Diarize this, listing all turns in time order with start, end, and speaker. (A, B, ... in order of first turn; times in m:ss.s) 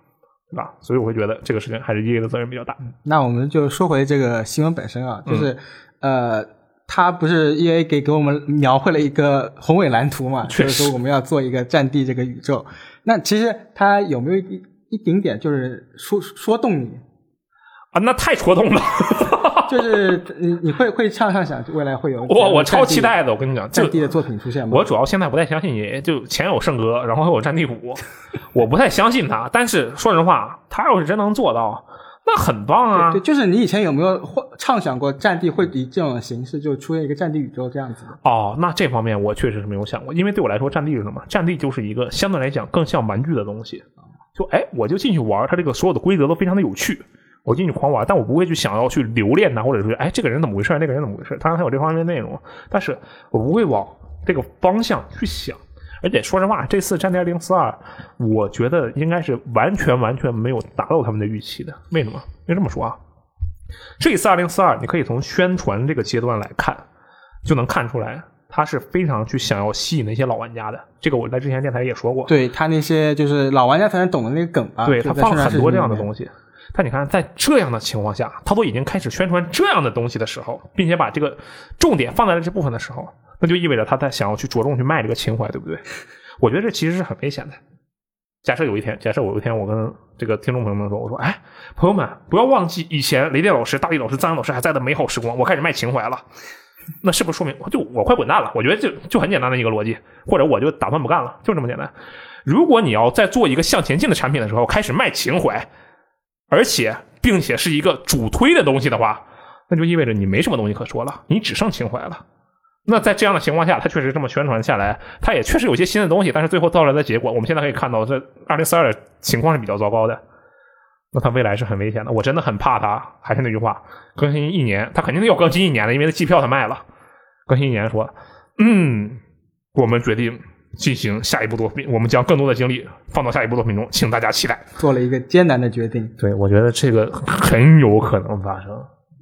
0:00.5-0:02.8 A
0:02.9-0:17.0 B
0:10.5-0:10.9 A
0:17.9-0:20.1 A
0:19.7-0:23.1 B
0:22.2-0:24.1 A
0:23.7-0:24.9 B
0:24.7-0:33.2 A
0:32.9-0:38.2 B
0:38.2-0:43.8 A
0:44.3-1:03.0 A
1:04.0-1:06.8 A
1:07.4-1:12.3 A
1:12.3-1:16.1 B
1:14.8-1:25.8 A
1:26.4-1:27.6 A
1:28.4-1:36.2 A
1:37.0-1:41.9 A
1:42.4-1:45.7 A
1:46.5-1:52.2 A
1:52.8-2:00.2 A
2:01.1-2:06.8 A
2:07.5-2:09.2 A
2:09.7-2:14.6 A
2:14.8-2:16.1 B
2:16.2-2:18.9 A